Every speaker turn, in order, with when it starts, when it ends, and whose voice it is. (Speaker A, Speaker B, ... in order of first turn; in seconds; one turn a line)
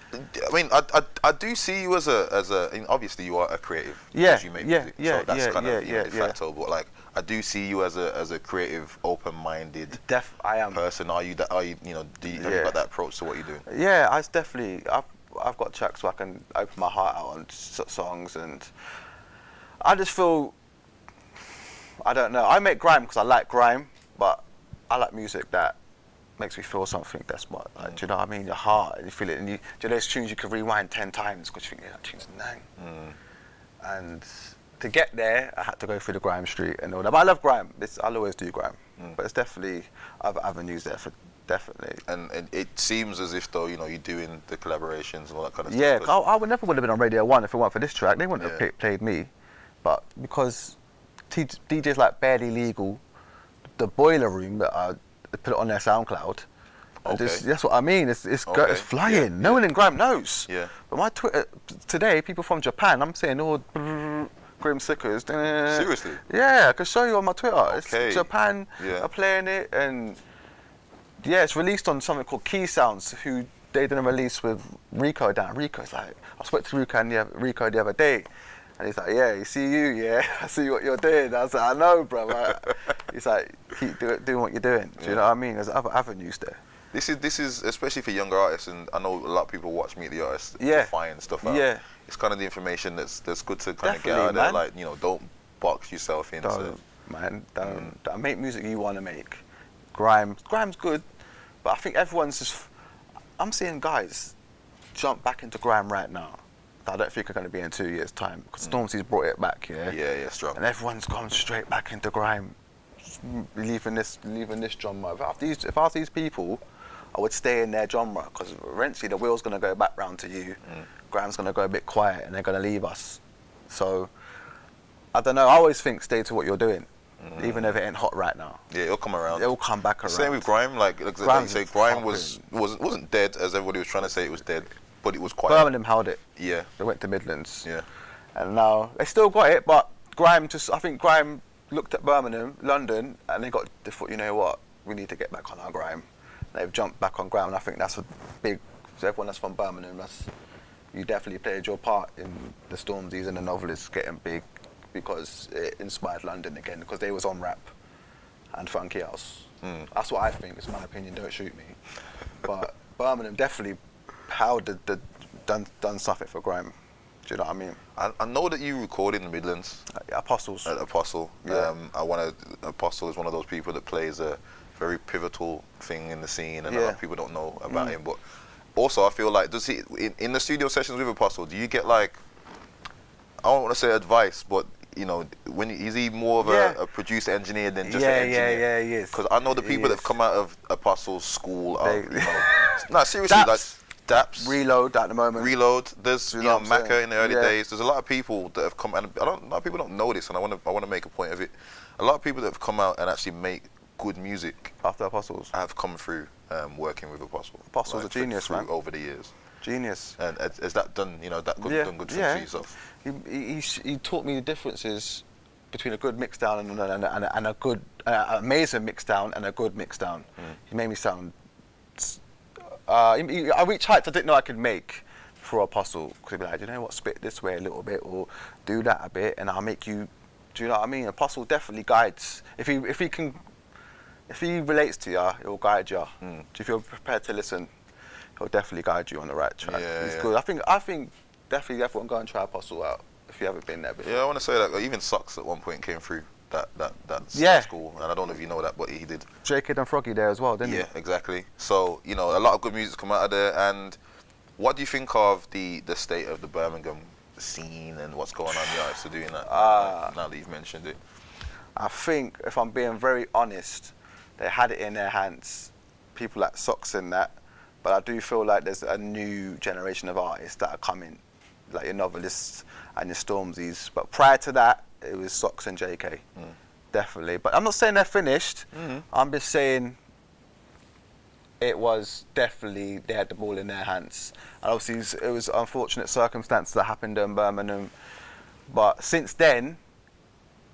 Speaker A: 0.1-10.0
Speaker B: 4.1-6.4
Speaker B: 9.9-10.8
Speaker A: 10.7-13.6
Speaker B: 12.3-12.8
Speaker B: 13.6-18.7
Speaker B: 19.8-20.5
Speaker B: 22.0-25.8
Speaker B: 26.4-32.6
Speaker A: 32.8-33.2
Speaker B: 33.8-42.0
Speaker A: 42.0-46.1
Speaker B: 45.7-49.3
Speaker A: 48.4-48.6
Speaker B: 49.8-50.8
Speaker B: 51.3-53.0
Speaker B: 53.8-56.5
Speaker A: 57.0-57.4
Speaker B: 57.1-70.2
Speaker A: 58.5-59.6
Speaker A: 65.7-66.2
Speaker A: 67.7-69.1
Speaker B: 71.2-78.3
Speaker B: 78.8-86.6
Speaker A: 85.0-85.2
Speaker A: 86.9-96.7
Speaker B: 90.6-90.9
Speaker B: 91.4-91.8
Speaker B: 93.8-94.6
Speaker B: 96.4-99.4
Speaker A: 97.6-97.9
Speaker B: 99.9-101.0
Speaker B: 101.6-102.7
Speaker B: 103.4-104.3
Speaker B: 104.9-110.0
Speaker A: 109.9-110.6
Speaker B: 110.5-116.6
Speaker B: 117.1-124.1
Speaker B: 125.1-128.6
Speaker A: 127.2-127.8
Speaker A: 128.7-129.5
Speaker B: 129.3-130.5
Speaker A: 130.0-135.7
Speaker B: 131.2-132.4
Speaker B: 135.4-136.2
Speaker A: 136.3-136.7
Speaker B: 136.8-137.7
Speaker B: 138.3-150.3
Speaker B: 150.9-157.7
Speaker B: 158.5-161.8
Speaker A: 159.6-159.9
Speaker B: 162.4-166.7
Speaker B: 167.2-167.8
Speaker A: 167.9-169.8
Speaker B: 169.9-170.7
Speaker A: 170.6-178.2
Speaker B: 171.4-171.7
Speaker B: 176.7-177.0
Speaker B: 177.7-177.9
Speaker A: 178.7-182.2
Speaker A: 183.4-194.6
Speaker B: 186.4-186.8
Speaker B: 187.8-190.1
Speaker B: 191.8-195.5
Speaker A: 195.3-204.7
Speaker B: 196.3-197.5
Speaker B: 204.8-205.5
Speaker A: 205.5-209.3
Speaker B: 207.7-208.7
Speaker B: 209.6-210.2
Speaker A: 210.2-212.7
Speaker B: 211.6-221.3
Speaker B: 222.7-233.4
Speaker B: 234.3-237.7
Speaker B: 238.4-244.3
Speaker A: 239.6-240.3
Speaker A: 244.0-249.3
Speaker B: 247.3-247.7
Speaker B: 249.4-250.9
Speaker A: 250.6-254.0
Speaker A: 254.6-261.0
Speaker B: 259.4-260.1
Speaker B: 261.8-276.2
Speaker B: 276.9-280.0
Speaker A: 278.7-279.0
Speaker B: 281.6-287.9
Speaker B: 288.7-289.8